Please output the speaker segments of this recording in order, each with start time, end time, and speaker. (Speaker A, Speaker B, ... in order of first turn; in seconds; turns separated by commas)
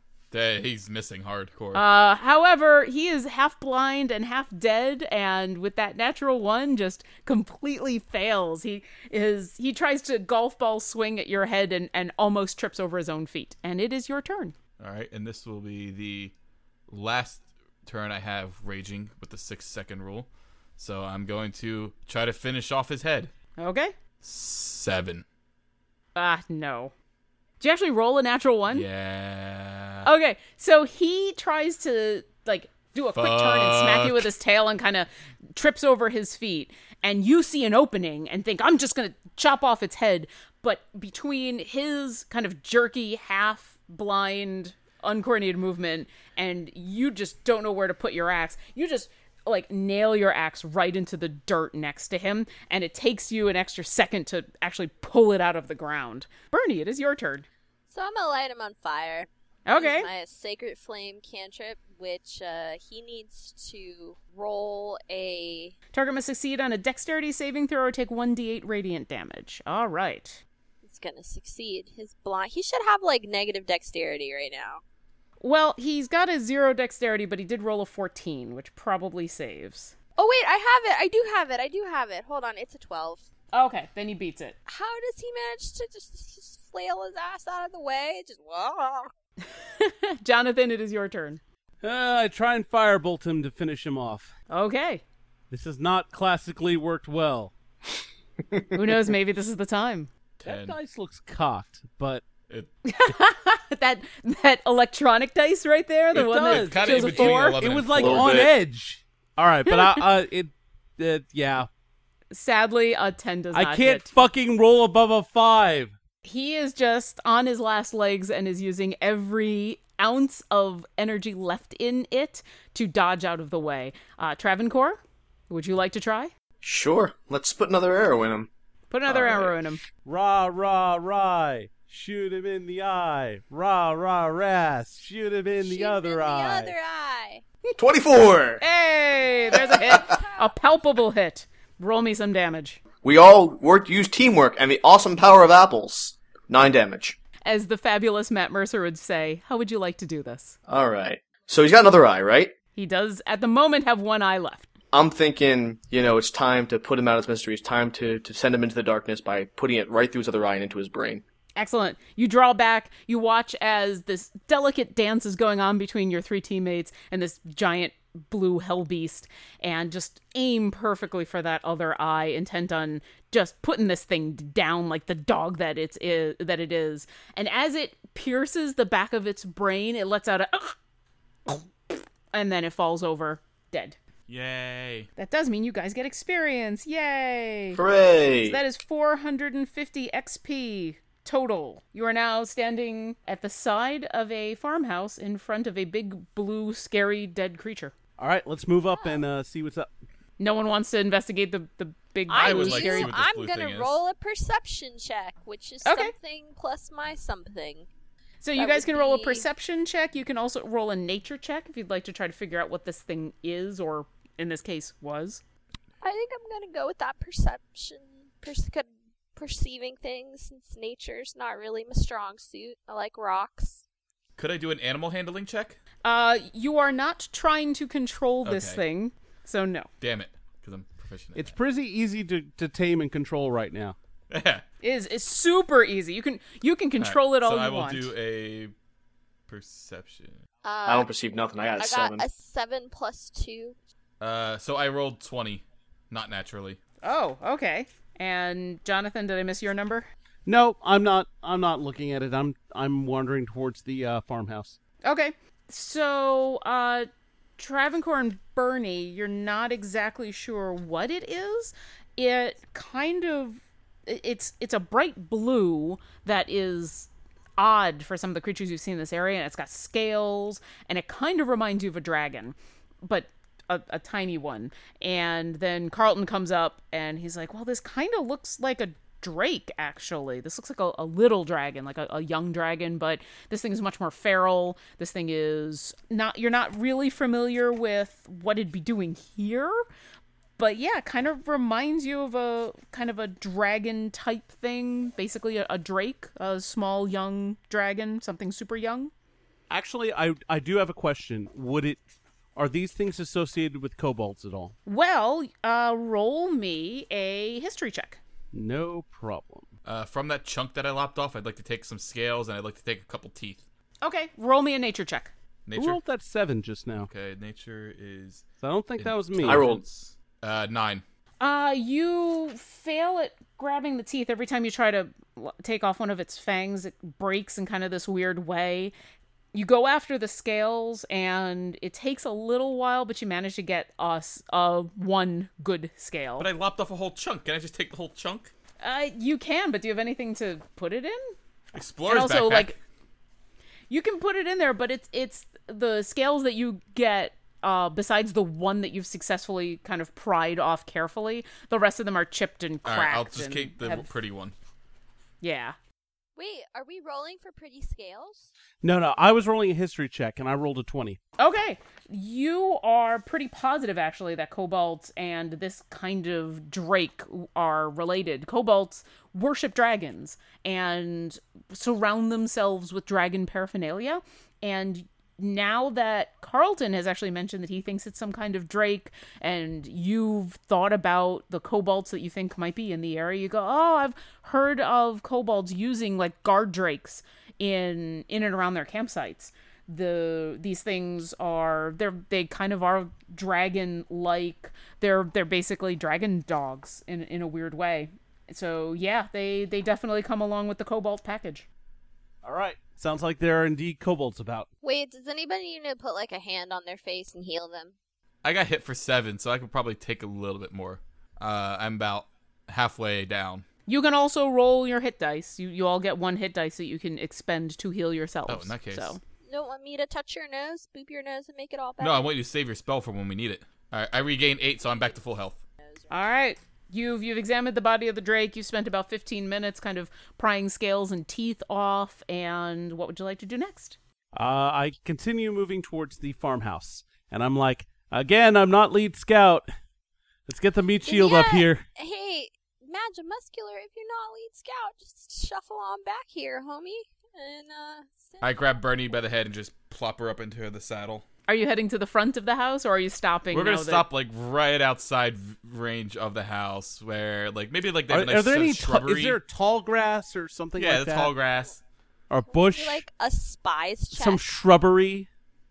Speaker A: 0.3-1.8, Speaker B: 1.7-14.5, Speaker A: 14.8-16.3, Speaker A: 16.9-23.3, Speaker B: 23.6-23.9, Speaker A: 24.2-25.2, Speaker B: 26.1-26.9, Speaker B: 27.6-28.9, Speaker A: 28.7-30.1, Speaker B: 30.0-57.5, Speaker A: 33.2-34.3, Speaker C: 57.9-65.8, Speaker B: 59.7-60.1, Speaker B: 65.9-70.4, Speaker C: 70.8-74.8, Speaker B: 75.4-80.0, Speaker C: 80.2-83.3, Speaker B: 83.5-84.6, Speaker C: 84.7-89.1, Speaker B: 89.6-91.4, Speaker D: 91.8-94.3, Speaker B: 94.5-95.0, Speaker D: 95.5-97.5, Speaker B: 98.8-100.1, Speaker A: 100.4-100.8, Speaker D: 100.4-102.3, Speaker B: 102.8-107.6, Speaker D: 106.1-111.7, Speaker A: 106.4-108.5, Speaker E: 107.9-108.5, Speaker B: 109.7-110.0, Speaker B: 112.3-114.1, Speaker D: 113.5-115.9, Speaker B: 116.2-126.3, Speaker E: 126.6-128.5, Speaker B: 128.9-129.8, Speaker E: 129.1-129.6, Speaker D: 130.1-136.7, Speaker C: 135.6-137.4, Speaker E: 137.8-138.6, Speaker B: 138.6-142.8, Speaker C: 139.3-140.5, Speaker E: 139.6-140.0, Speaker E: 143.0-147.2, Speaker B: 147.5-150.6, Speaker E: 150.7-152.5, Speaker B: 152.8-154.7, Speaker E: 154.9-161.2, Speaker B: 161.6-180.8, Speaker B: 182.3-184.0, Speaker A: 184.3-185.1, Speaker B: 185.2-187.8, Speaker E: 187.7-188.6, Speaker B: 188.4-197.9, Speaker D: 198.2-199.9, Speaker C: 198.9-199.2, Speaker B: 200.4-203.2, Speaker C: 202.3-207.9, Speaker A: 202.4-204.0, Speaker B: 205.8-206.1, Speaker B: 208.4-215.4, Speaker C: 208.6-209.5, Speaker C: 216.0-223.8, Speaker A: 224.4-225.8, Speaker B: 226.0-229.9, Speaker A: 228.4-228.8, Speaker A: 230.0-231.6, Speaker D: 231.4-233.9, Speaker A: 234.3-234.7, Speaker B: 234.8-238.1, Speaker A: 237.0-238.7, Speaker A: 239.5-240.4, Speaker C: 240.6-241.1, Speaker E: 240.9-242.2, Speaker C: 241.8-243.8, Speaker A: 244.2-246.8, Speaker B: 247.0-250.1, Speaker D: 250.5-254.8, Speaker B: 255.1-289.8, Speaker B: 290.6-299.1, Speaker D: 299.7-302.0, Speaker D: 302.6-304.8, Speaker B: 304.9-308.2, Speaker D: 308.5-309.7, Speaker A: 309.9-313.6, Speaker B: 314.0-315.3, Speaker A: 315.7-316.0, Speaker D: 315.8-317.1, Speaker A: 317.1-321.0, Speaker D: 318.6-319.7, Speaker E: 319.4-319.8, Speaker B: 321.4-328.9, Speaker B: 329.5-336.5, Speaker A: 336.4-338.5, Speaker B: 338.8-341.3, Speaker A: 341.7-342.8, Speaker B: 342.1-342.8, Speaker B: 343.9-354.1, Speaker A: 352.9-354.6, Speaker B: 355.4-355.8, Speaker C: 356.4-358.5, Speaker D: 358.8-361.2, Speaker B: 361.4-401.7, Speaker D: 402.4-404.7, Speaker C: 404.8-407.9, Speaker A: 408.4-413.6, Speaker B: 413.9-419.2, Speaker A: 418.5-419.2, Speaker C: 419.4-422.3, Speaker A: 422.0-425.6, Speaker B: 426.1-434.0, Speaker D: 434.4-439.7, Speaker D: 440.5-441.8, Speaker C: 441.0-448.6, Speaker A: 448.4-451.2, Speaker B: 451.5-454.1, Speaker A: 453.5-459.4, Speaker D: 458.1-461.3, Speaker A: 460.8-461.8, Speaker D: 462.3-463.0, Speaker C: 462.5-464.4, Speaker D: 464.1-465.3